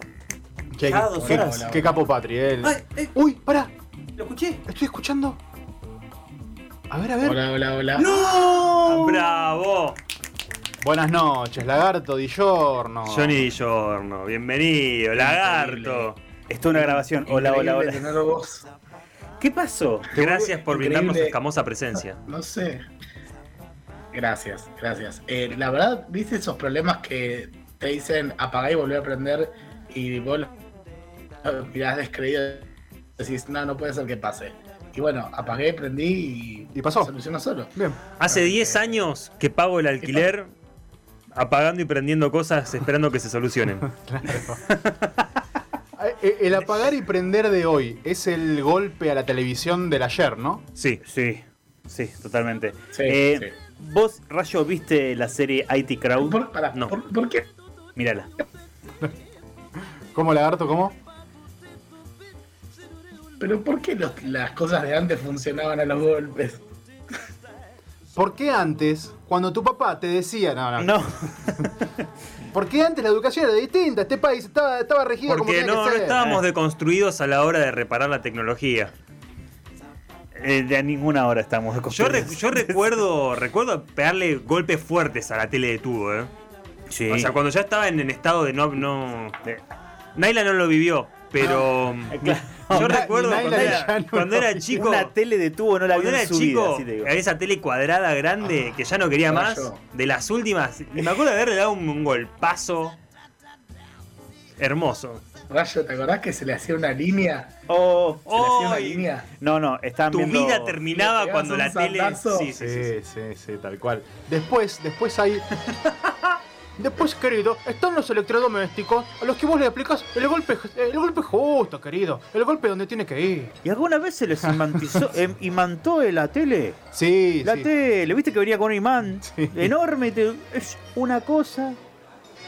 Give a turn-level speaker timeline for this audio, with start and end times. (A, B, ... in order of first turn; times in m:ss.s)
0:00.7-0:03.7 A
0:00.8-0:01.7 B
0:01.2-0:02.0 C
0:02.6-0:03.1 B
0:04.2-0:04.6 B
0:04.7-0:05.4 A
0:06.9-0:07.4 A
0:07.2-0:08.1 C
0:08.0-0:09.2 B
0:08.1-0:08.8 A
0:08.8-0:10.0 D
0:10.8-0:13.4 A
0:13.1-0:16.2 D
0:15.1-0:16.1 C
0:16.5-0:18.2 B
0:16.7-0:18.7 C
0:19.4-0:20.1 B
0:20.1-0:21.4 C
0:20.1-0:22.2 D
0:22.3-0:22.8 C
0:24.1-0:30.5 C
0:31.4-0:37.7 C
0:36.7-0:37.1 A
0:37.8-0:38.0 A
0:38.2-0:40.5 D
0:38.3-0:39.0 C
0:41.3-0:43.9 D
0:43.9-0:44.6 A
0:44.5-0:45.2 B
0:46.0-0:50.6 A
0:50.8-0:51.0 D
0:51.0-0:56.4 B
0:52.9-0:53.5 C
0:56.2-0:57.5 C
0:58.0-0:58.3 B
1:00.1-1:01.0 A
1:03.4-1:06.6 C
1:08.2-1:11.0 A
1:10.8-1:11.9 B
1:12.5-1:16.2 A
1:15.3-1:18.9 D
1:16.1-1:16.4 B
1:20.4-1:23.0 B
1:21.9-1:26.3 D
1:26.9-1:27.3 B
1:27.1-1:29.6 D
1:30.2-1:35.1 D
1:31.4-1:31.7 C
1:32.2-1:33.9 B
1:32.7-1:34.9 A
1:34.8-1:37.1 B
1:35.9-1:43.0 D
1:39.3-1:39.8 C
1:44.6-1:45.2 D
1:45.5-1:47.6 C
1:47.7-1:48.8 B
1:48.3-1:49.0 D
1:48.4-1:49.3 C
1:49.3-1:50.8 B
1:50.1-1:52.8 D
1:50.9-1:52.9 C
1:52.6-1:55.5 A
1:56.8-2:03.6 A
2:03.6-2:06.8 B
2:04.6-2:05.0 A
2:06.9-2:07.7 A
2:07.4-2:11.8 B
2:09.2-2:09.7 A